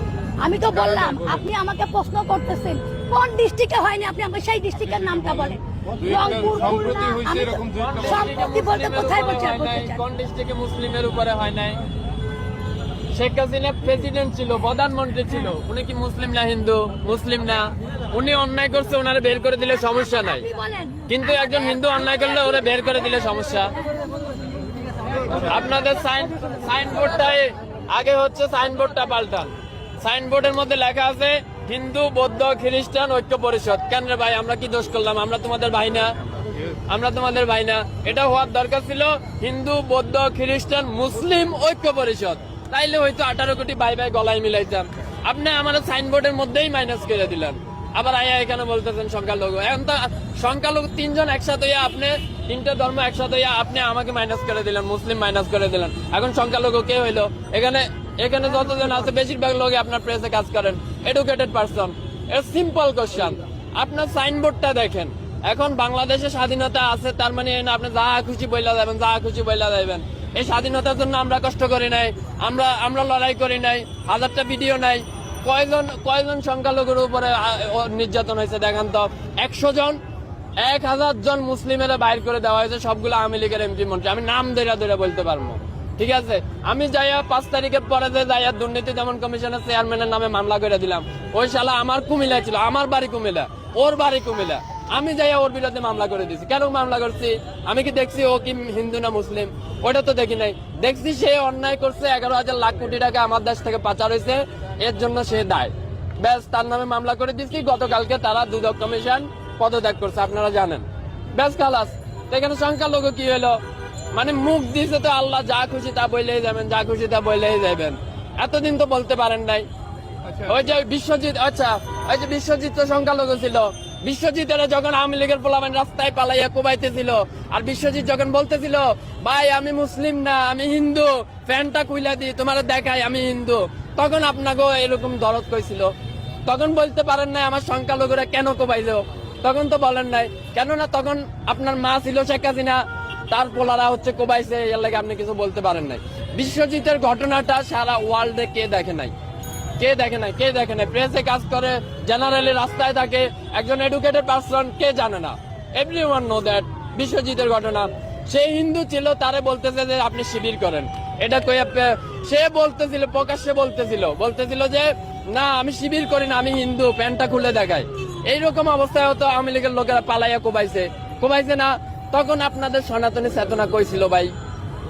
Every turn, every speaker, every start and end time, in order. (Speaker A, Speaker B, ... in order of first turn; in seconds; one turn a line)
Speaker A: 0.4-10.0
Speaker B: 0.7-1.5
Speaker B: 4.8-8.3
Speaker C: 7.8-11.8
Speaker C: 13.1-20.5
Speaker A: 20.3-21.1
Speaker C: 21.1-23.7
Speaker A: 21.8-22.9
Speaker C: 25.4-36.1
Speaker C: 36.9-80.0
Speaker C: 80.6-113.6
Speaker C: 114.1-119.7
Speaker B: 120.2-120.5
Speaker C: 120.5-135.9
Speaker C: 136.5-149.1
Speaker C: 149.8-174.3